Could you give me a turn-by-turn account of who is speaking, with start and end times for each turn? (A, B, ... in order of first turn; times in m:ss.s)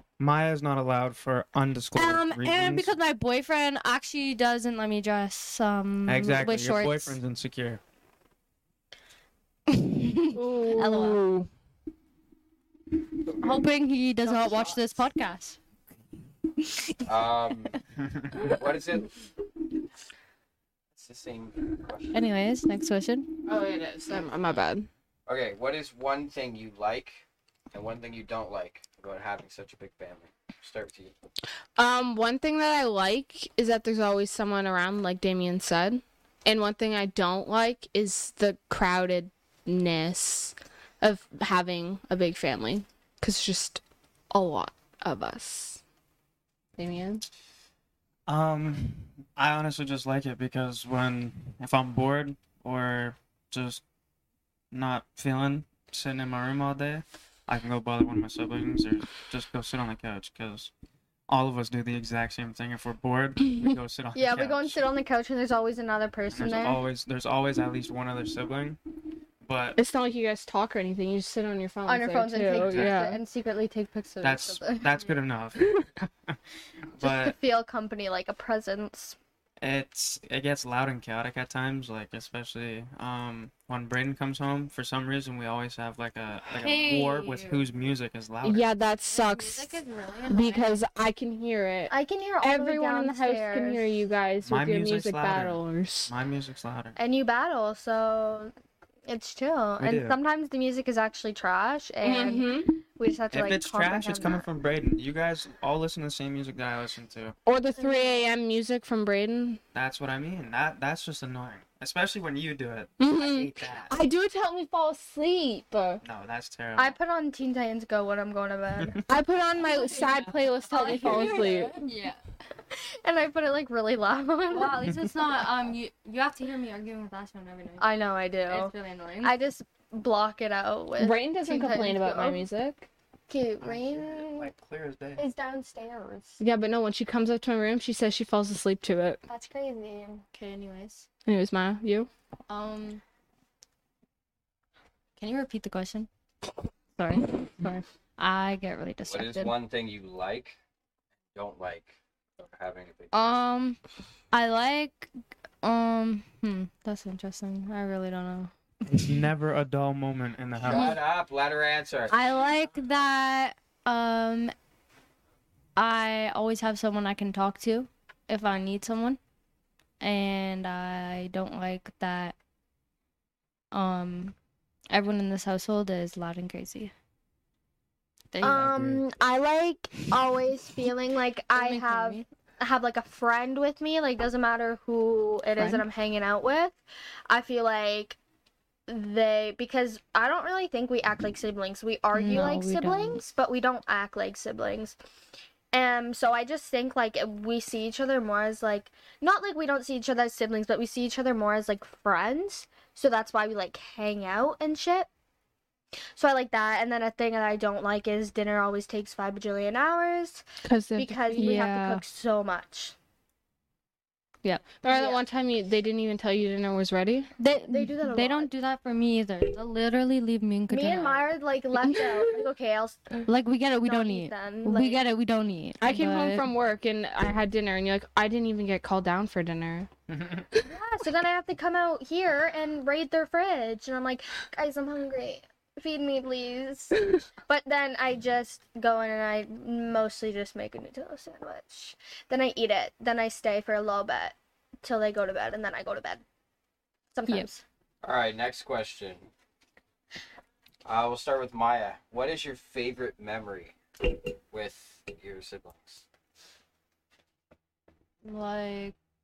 0:00.2-0:02.9 A
0:01.9-0:07.2 B
0:06.1-0:07.8 A
0:09.7-0:11.2 B
0:10.3-0:11.5 C
0:13.3-0:15.6 B
0:14.2-0:14.8 D
0:17.0-0:17.8 E
0:18.4-0:19.2 E
0:20.9-0:22.3 E
0:22.1-0:23.5 B
0:23.4-0:24.9 C
0:25.2-0:31.1 E
0:31.8-0:45.8 C
0:46.8-0:47.2 C
0:48.3-0:53.8 A
0:54.7-1:00.7 A
1:01.3-1:04.8 A
1:04.1-1:06.8 D
1:06.3-1:08.8 A
1:09.4-1:09.8 A
1:09.8-1:13.2 C
1:11.8-1:15.0 D
1:12.6-1:13.0 A
1:14.2-1:16.4 A
1:16.9-1:17.3 A
1:17.0-1:19.2 D
1:19.6-1:28.6 A
1:26.6-1:27.6 B
1:28.4-1:29.7 C
1:29.1-1:30.8 B
1:30.3-1:36.1 C
1:31.9-1:34.1 D
1:34.4-1:37.0 A
1:37.0-1:38.5 D
1:39.1-1:44.5 D
1:39.8-1:40.2 A
1:42.0-1:42.7 C
1:43.3-1:47.3 A
1:47.4-1:49.6 C
1:47.8-1:48.3 D
1:49.7-1:54.0 A
1:53.0-1:56.0 C
1:56.0-1:57.0 A
1:56.8-1:59.0 D
1:58.8-1:59.0 A
1:59.1-2:01.8 C
1:59.7-2:02.2 B
2:00.8-2:01.7 D
2:02.7-2:04.7 D
2:04.5-2:07.9 B
2:07.8-2:12.4 D
2:08.4-2:09.3 B
2:11.0-2:12.9 C
2:13.3-2:14.5 D
2:13.6-2:15.2 A
2:15.2-2:16.4 D
2:16.4-2:19.2 C
2:19.3-2:20.2 D
2:20.3-2:21.0 B
2:21.2-2:22.1 C
2:22.5-2:23.0 B
2:25.2-2:26.1 B
2:27.0-2:29.5 B
2:29.0-2:30.6 E
2:31.3-2:33.4 E
2:33.1-2:33.8 B
2:34.3-2:35.1 B
2:35.6-2:39.1 B
2:38.9-2:41.0 A
2:40.6-2:42.2 E
2:40.7-2:41.0 B
2:42.1-2:44.5 B
2:45.8-2:49.2 B
2:50.0-2:52.4 B
2:53.7-2:54.3 B
2:54.9-2:56.9 B
2:58.3-2:58.6 B
2:58.4-2:59.0 A
2:58.4-3:08.2 D
3:01.5-3:02.2 B
3:05.6-3:05.8 C
3:08.9-3:15.0 D
3:12.1-3:13.2 B
3:15.7-3:25.1 D
3:26.2-3:30.4 D
3:30.6-3:31.6 C
3:30.9-3:32.9 D
3:31.3-3:32.0 B
3:34.8-3:37.3 C
3:34.9-3:35.2 D
3:37.4-3:41.3 B
3:37.7-3:38.5 D
3:40.7-3:43.2 D
3:43.2-3:46.4 B
3:43.8-3:45.0 D
3:45.8-3:49.9 C
3:50.1-3:50.4 A
3:50.6-4:06.2 D
4:07.1-4:07.6 D
4:08.0-4:09.3 E
4:10.8-4:13.8 E
4:14.5-4:16.0 E
4:18.2-4:18.9 B